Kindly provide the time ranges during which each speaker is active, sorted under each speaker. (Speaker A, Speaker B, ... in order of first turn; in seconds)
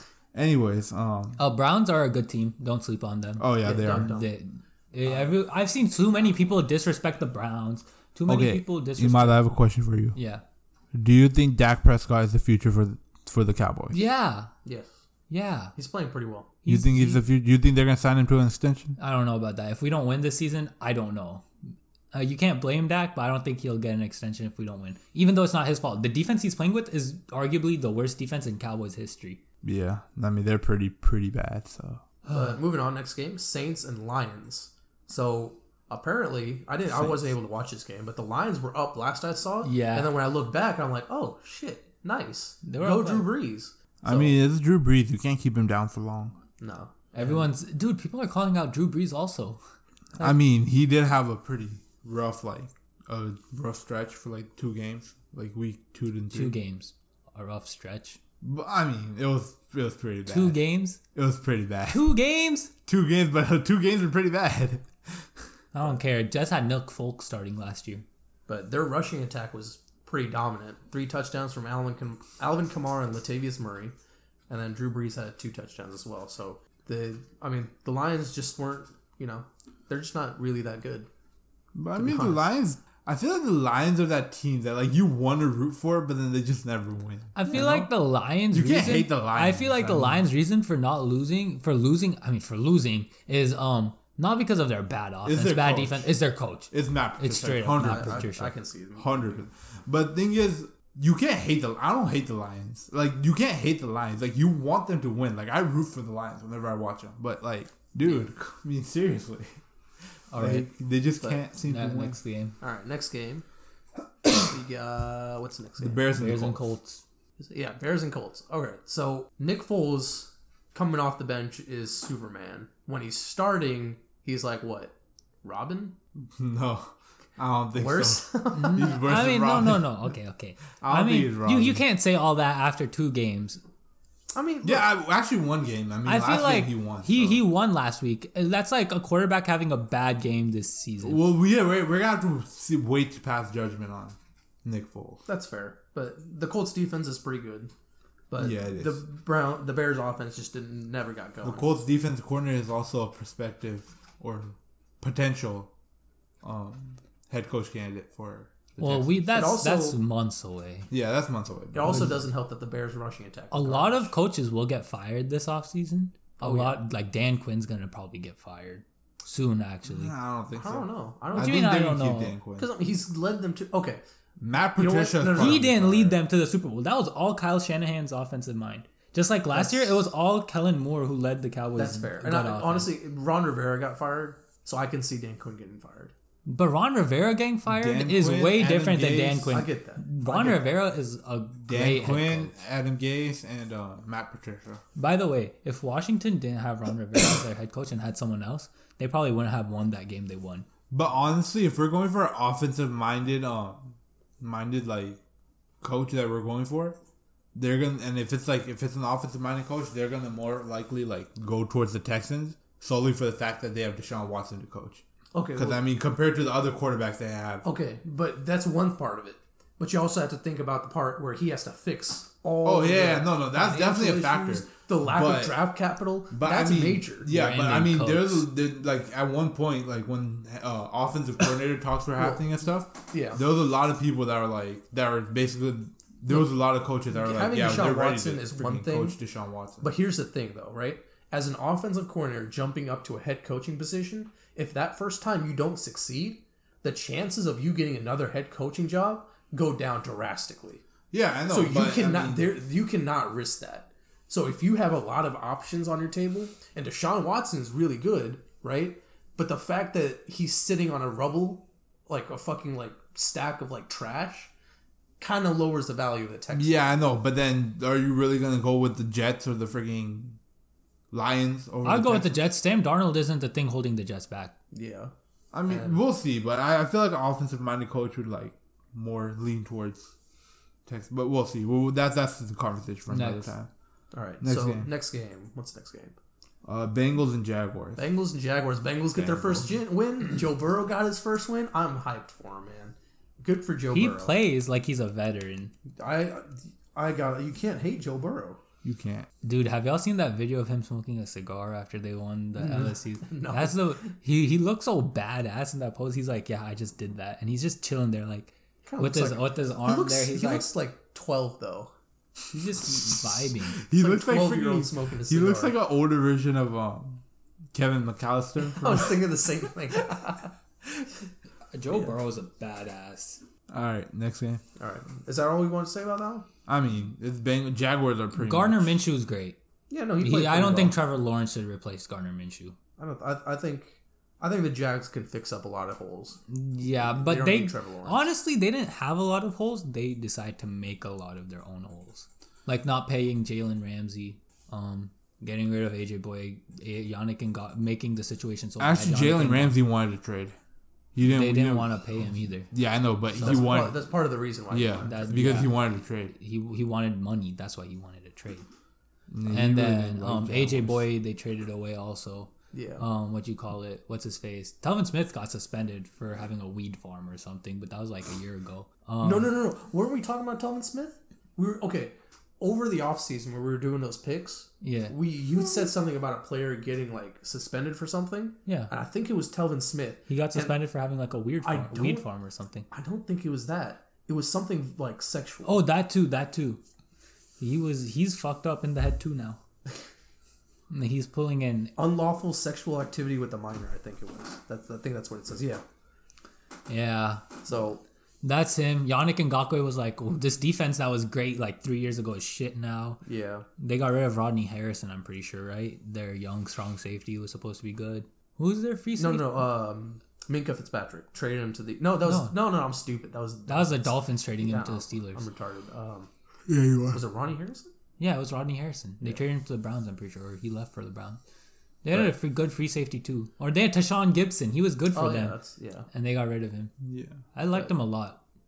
Speaker A: 0.3-1.4, 3.4-4.2, 8.3-10.2, 10.9-14.0, 16.7-19.0, 29.6-32.0, 44.0-46.4, 50.2-56.5, 58.4-60.6, 61.1-62.1, 62.9-64.9, 81.7-87.9, 88.5-90.2, 95.2-96.1, 96.7-98.3, 99.0-109.6, 110.3-112.2, 115.8-116.6, 126.3-130.1, 130.8-131.8, 134.6-137.4, 141.0-145.2, 148.4-149.0, 151.4-155.7, 156.4-159.2, 160.9-162.2, 169.8-172.7, 174.4-176.2, 187.7-189.6, 191.7-194.8, 200.9-205.2, 205.8-207.0, 207.5-215.0, 215.6-217.7, 222.6-225.7, 226.3-239.9, 251.1-252.6, 266.5-270.4, 271.1-272.5, 275.5-280.1, 280.9-283.7, 284.4-284.9, 286.6-288.1, 289.1-289.8, 298.8-299.3, 312.9-317.2, 317.7-319.4, 323.7-324.6, 326.7-328.9, 348.8-350.6, 351.1-352.1, 352.7-354.1, 354.7-356.3, 359.3-361.1, 416.7-417.2, 427.0-427.4
Speaker B: 1.4-9.6, 10.1-10.4, 13.9-14.5, 15.3-15.7, 16.6-17.2, 19.0-21.5, 22.1-29.4, 39.6-40.1, 42.6-43.3, 47.1-49.6, 56.3-58.2, 60.3-61.0, 61.9-62.7, 65.7-68.0, 87.4-98.5, 110.3-110.7, 111.6-112.6, 116.1-117.0, 128.5-133.6, 136.1-141.2, 158.8-160.9, 163.5-170.1, 171.3-172.3, 175.4-182.9, 186.5-192.6, 194.9-200.7, 227.2-228.5, 271.8-274.5, 283.1-283.5, 293.9-295.7, 299.4-310.7, 312.5-313.8, 321.7-323.4, 328.4-329.6, 330.2-332.8, 336.5-349.8, 351.2-352.7, 355.0-358.7, 359.4-369.5, 374.8-375.1, 378.7-378.9, 380.3-382.9, 385.6-386.8, 387.6-389.6, 390.9-391.9, 396.9-397.5, 398.4-403.2, 403.8-409.7, 412.2-412.6, 413.7-415.4, 418.2-421.4, 422.0-425.6, 426.1-426.9, 427.5-428.4
Speaker C: 3.6-4.3, 14.7-14.9, 15.8-16.5, 32.3-44.4, 46.6-47.4, 68.5-74.0, 74.5-81.1, 81.9-82.5, 97.7-99.5, 112.6-113.5, 114.3-116.1, 117.4-126.0, 127.7-129.0, 134.3-134.9, 145.3-147.7, 148.3-151.7, 159.3-160.0, 161.7-164.1, 166.4-166.8, 170.5-171.8, 172.6-174.0, 174.8-175.7, 179.5-180.1, 181.8-186.1, 189.5-190.7, 215.3-215.8, 217.6-227.3, 232.2-232.5, 233.1-233.4, 237.1-239.2, 239.8-250.8, 251.5-264.5, 265.2-266.9, 274.7-275.1, 275.7-276.0, 284.1-286.2, 288.0-294.4, 295.9-298.6, 302.6-303.9, 308.9-311.9, 313.9-315.8, 318.8-320.5, 324.8-326.5, 329.9-331.0, 333.0-336.4, 337.0-338.3, 353.4-355.3, 362.7-363.1, 369.2-380.8, 381.6-382.3, 382.9-385.9, 392.0-395.8, 397.6-398.0, 403.2-403.7, 409.2-416.3, 417.1-417.9, 425.1-426.1